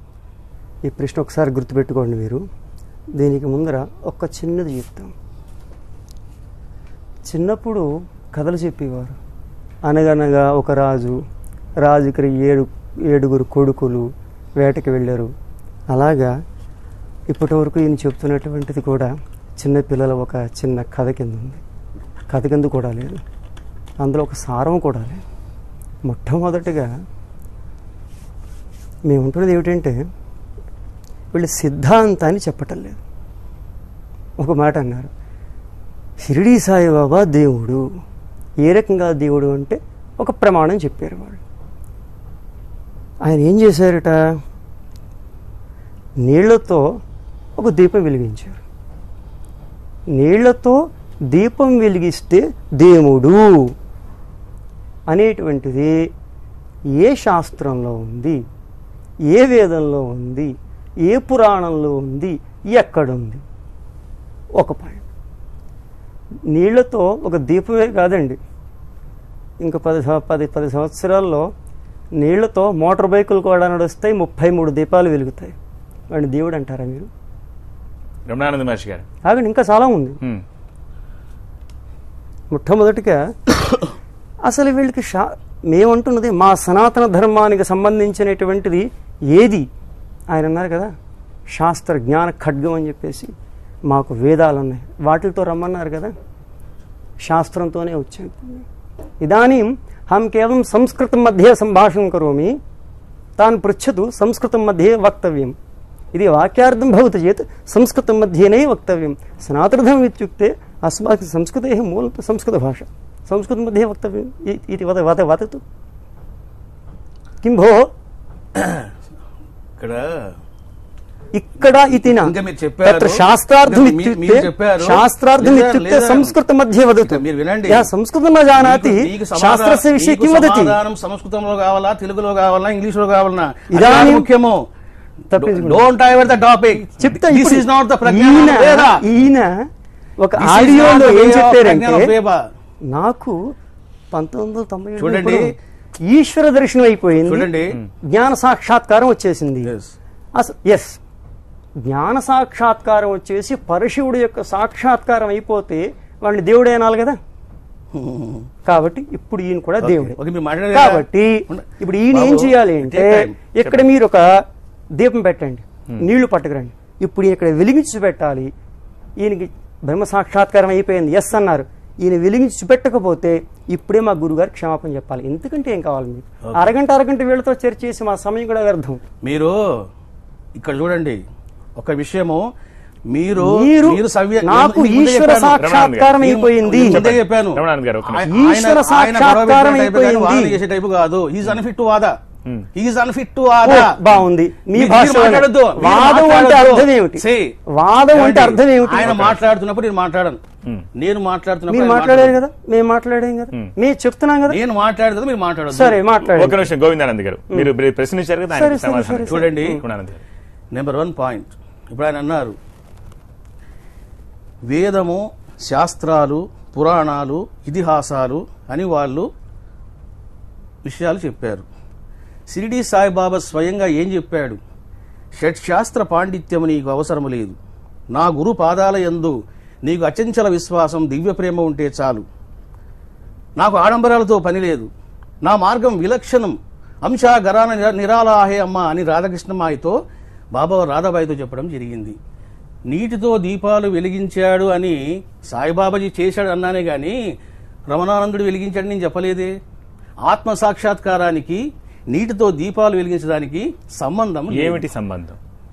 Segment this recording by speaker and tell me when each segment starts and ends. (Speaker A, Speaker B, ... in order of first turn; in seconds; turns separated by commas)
Speaker A: 0.9-2.4, Speaker A: 3.2-5.1, Speaker A: 7.3-9.2, Speaker A: 9.9-11.2, Speaker A: 11.8-14.1, Speaker A: 14.6-15.3, Speaker A: 15.9-16.3, Speaker A: 17.3-21.6, Speaker A: 22.3-23.2, Speaker A: 24.0-25.2, Speaker A: 26.1-26.9, Speaker A: 29.1-30.0, Speaker A: 31.3-33.0, Speaker A: 34.4-35.1, Speaker A: 36.2-37.9, Speaker A: 38.6-41.4, Speaker A: 43.2-44.2, Speaker A: 46.2-46.9, Speaker A: 47.6-48.6, Speaker A: 50.1-53.7, Speaker A: 55.1-55.9, Speaker A: 57.0-58.4, Speaker A: 59.3-60.5, Speaker A: 61.1-63.4, Speaker A: 64.6-65.0, Speaker A: 66.5-68.4, Speaker A: 69.6-71.5, Speaker A: 72.2-75.5, Speaker A: 76.1-77.1, Speaker B: 78.3-79.0, Speaker A: 79.2-80.2, Speaker A: 82.5-83.2, Speaker A: 84.5-89.7, Speaker A: 90.3-90.9, Speaker A: 91.5-93.3, Speaker A: 93.9-96.1, Speaker A: 97.2-98.7, Speaker A: 99.2-102.6, Speaker A: 103.4-105.6, Speaker A: 106.1-115.6, Speaker A: 117.4-117.9, Speaker C: 118.5-118.9, Speaker C: 119.8-120.3, Speaker A: 121.3-130.8, Speaker C: 122.1-126.3, Speaker C: 127.1-127.9, Speaker C: 128.6-134.6, Speaker A: 133.7-134.3, Speaker A: 135.3-135.9, Speaker C: 135.4-139.0, Speaker A: 137.0-139.7, Speaker A: 140.2-142.1, Speaker C: 140.4-142.4, Speaker A: 142.9-143.5, Speaker A: 144.1-145.6, Speaker C: 145.0-145.5, Speaker A: 146.1-147.5, Speaker C: 147.3-147.8, Speaker A: 148.1-149.7, Speaker C: 149.7-149.9, Speaker A: 150.4-151.0, Speaker A: 151.8-157.2, Speaker C: 157.9-158.5, Speaker A: 158.7-160.2, Speaker C: 159.8-163.3, Speaker A: 160.7-164.4, Speaker A: 164.9-168.5, Speaker A: 169.2-179.0, Speaker C: 176.4-176.7, Speaker C: 179.2-179.9, Speaker C: 180.6-181.2, Speaker C: 181.8-182.4, Speaker C: 183.1-185.6, Speaker A: 183.3-187.0, Speaker B: 185.6-188.3, Speaker C: 186.2-192.2, Speaker A: 188.3-190.6, Speaker C: 192.8-193.9, Speaker A: 193.6-199.3, Speaker C: 194.8-197.5, Speaker C: 198.1-200.4, Speaker B: 199.0-199.3, Speaker C: 201.0-202.4, Speaker A: 201.7-204.6, Speaker C: 204.5-206.0, Speaker A: 205.7-206.6, Speaker B: 206.2-210.2, Speaker A: 208.5-209.8, Speaker C: 209.3-209.8, Speaker C: 210.7-212.6, Speaker C: 214.7-219.3, Speaker C: 220.8-221.7, Speaker C: 222.5-224.6, Speaker C: 225.4-227.6, Speaker C: 228.1-232.2, Speaker C: 233.6-234.9, Speaker C: 235.4-240.0, Speaker C: 240.5-242.2, Speaker C: 242.9-247.2, Speaker C: 247.9-249.5, Speaker C: 250.3-254.8, Speaker B: 254.5-255.4